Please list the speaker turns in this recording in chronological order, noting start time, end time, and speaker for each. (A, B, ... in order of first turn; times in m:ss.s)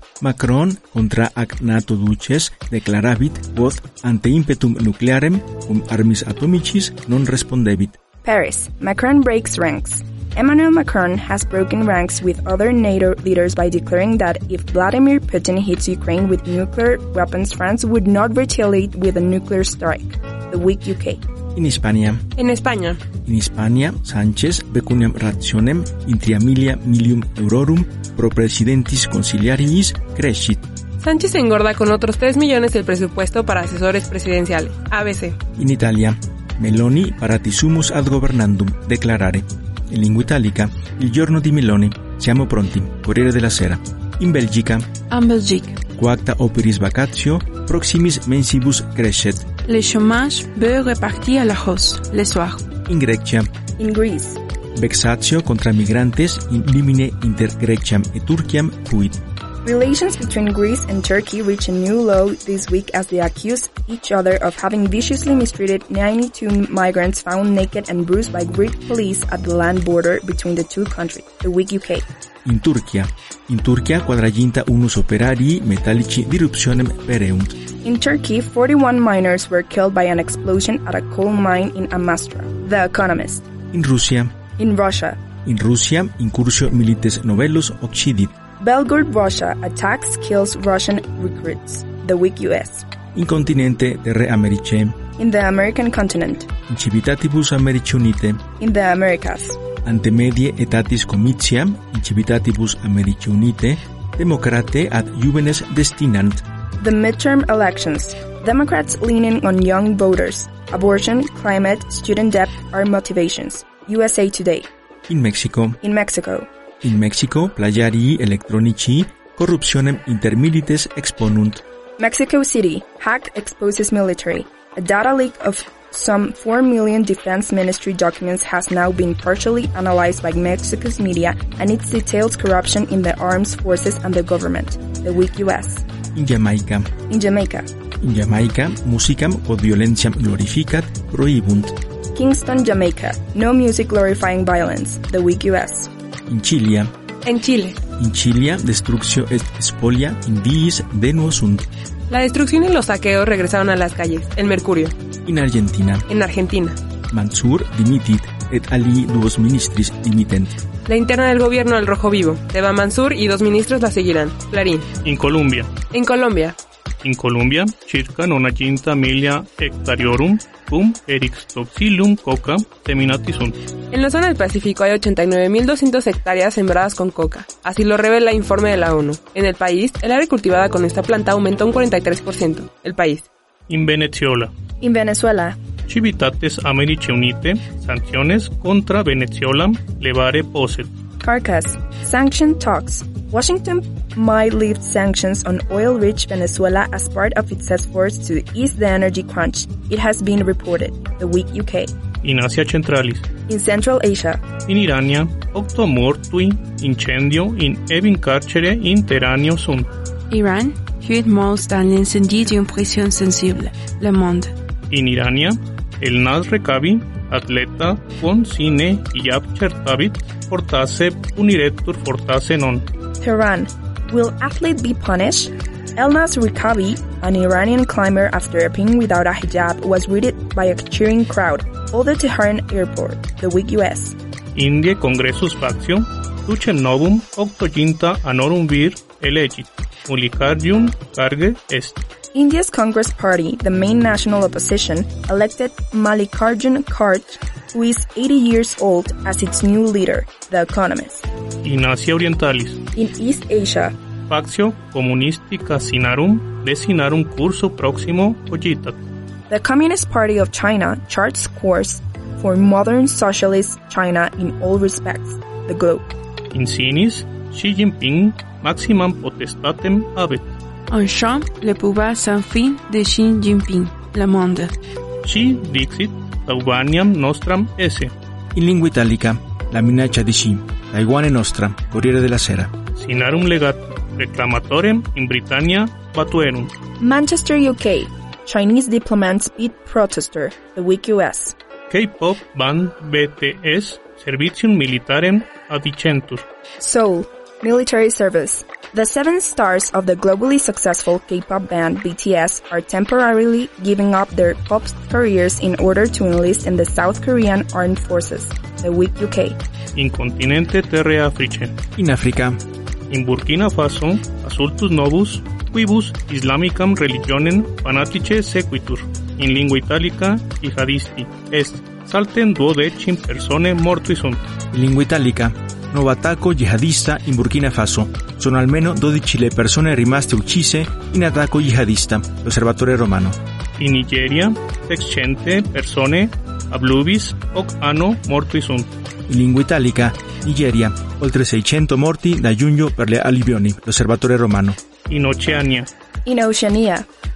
0:00.2-0:08.0 A
0:08.2-0:21.2 B
0:21.5-0:22.2 A
0:22.4-0:23.0 C
0:23.2-0:30.6 A
0:31.0-0:35.4 C
0:35.6-0:44.9 A
0:45.1-0:45.8 D
0:46.0-0:49.4 A
0:49.6-0:52.6 D
0:52.9-0:53.5 A
0:53.8-0:54.4 B
0:54.8-0:59.2 A
0:59.6-1:12.0 B
1:12.4-1:17.6 A
1:17.8-1:23.5 B
1:23.7-1:24.3 A
1:24.6-1:25.2 B
1:25.4-1:28.3 A
1:28.6-1:32.8 B
1:33.1-1:35.0 A
1:35.2-1:36.5 B
1:36.7-1:38.4 A
1:38.6-1:39.6 B
1:39.8-1:46.4 A
1:46.8-1:54.7 B
1:55.1-1:55.8 A
1:55.8-1:56.5 B
1:56.8-2:01.6 A
2:02.0-2:15.8 B
2:16.1-2:16.9 A
2:17.1-2:17.7 B
2:18.0-2:21.8 A
2:22.1-2:25.9 B
2:26.3-2:26.9 A
2:27.2-2:27.8 C
2:28.0-2:31.6 A
2:32.1-2:34.9 C
2:35.2-2:36.0 A
2:36.1-2:36.8 C
2:37.1-2:40.6 A
2:40.8-2:44.9 C
2:45.0-2:45.7 E
2:45.9-2:46.6 C
2:47.0-2:53.6 E
2:53.9-3:03.3 C
3:03.7-3:04.5 E
3:04.8-3:05.6 B
3:05.9-3:10.9 E
3:11.2-3:21.9 B
3:22.2-3:23.2 E
3:23.5-3:24.4 B
3:24.7-3:29.9 E
3:30.3-3:34.5 D
3:34.9-3:42.9 E
3:43.2-3:54.1 B
3:54.5-4:02.0 E
4:02.3-4:11.2 B
4:11.6-4:12.8 E
4:12.9-4:14.0 B
4:14.3-4:19.0 E
4:19.5-4:26.1 B
4:26.5-4:30.5 E
4:30.9-4:34.7 D
4:35.2-4:38.1 E
4:38.5-4:42.7 A
4:43.0-4:46.7 E
4:47.0-4:51.5 B
4:51.9-4:56.4 E
4:56.8-5:09.6 B
5:09.9-5:11.7 E
5:12.0-5:12.6 A
5:13.1-5:24.4 E
5:24.7-5:33.4 A
5:33.8-5:38.9 E
5:39.3-5:44.8 A
5:45.1-5:45.9 E
5:46.2-5:47.1 B